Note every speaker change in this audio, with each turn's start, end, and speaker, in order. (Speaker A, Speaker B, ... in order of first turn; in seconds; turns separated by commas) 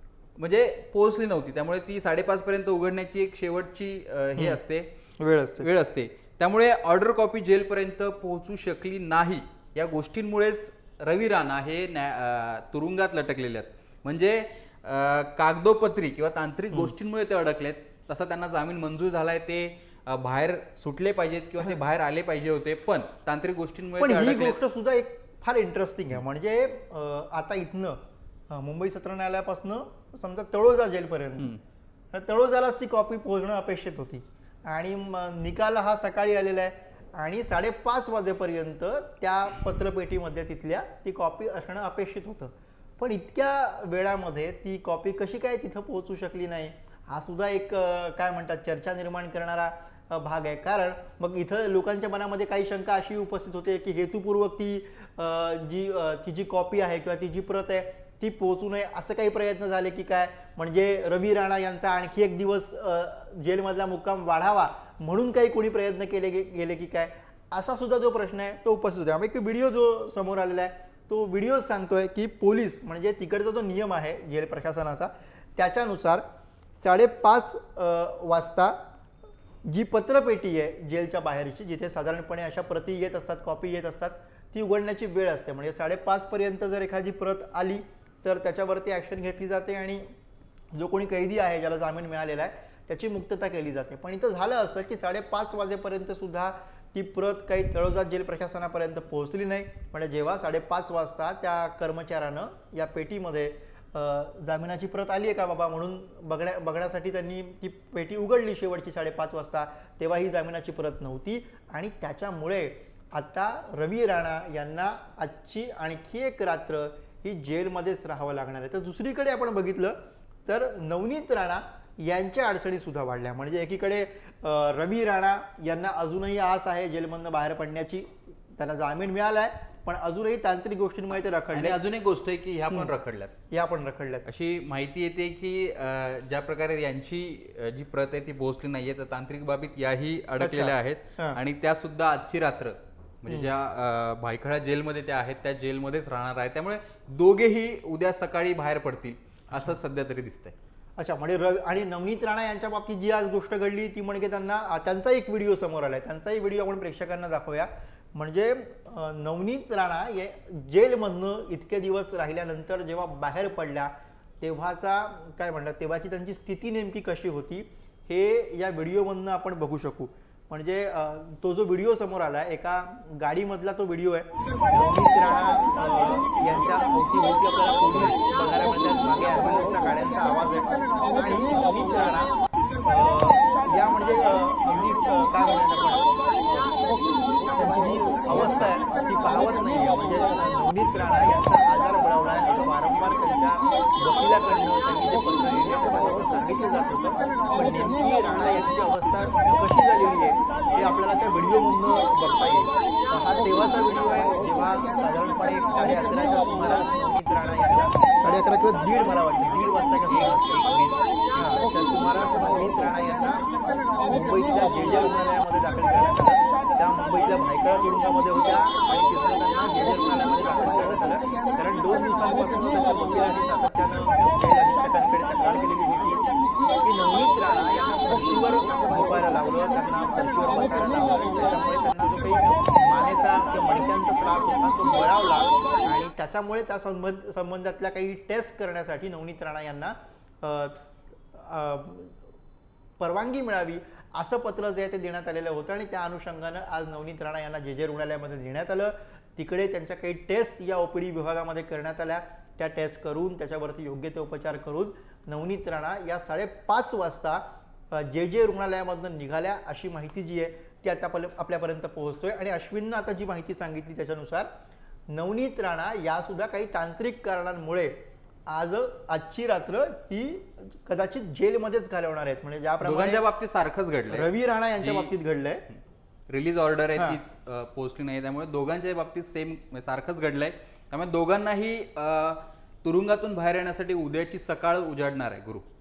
Speaker A: 0.4-4.9, Speaker B: 5.2-5.7, Speaker A: 5.6-24.6, Speaker B: 24.0-31.6, Speaker B: 32.1-76.2, Speaker B: 76.8-78.8, Speaker B: 79.7-90.0, Speaker B: 90.7-131.8, Speaker A: 131.5-133.3, Speaker B: 133.5-134.2, Speaker A: 134.2-150.6, Speaker B: 140.4-141.4, Speaker B: 151.0-186.8, Speaker B: 187.6-210.6, Speaker A: 188.3-188.7, Speaker A: 210.1-211.6, Speaker B: 211.4-213.5, Speaker B: 214.1-226.2, Speaker B: 226.8-240.8, Speaker B: 241.3-242.2, Speaker B: 243.0-264.5, Speaker B: 265.1-268.0, Speaker B: 268.5-273.2, Speaker A: 272.8-274.3, Speaker B: 274.1-275.6, Speaker A: 274.8-275.1, Speaker A: 275.7-285.7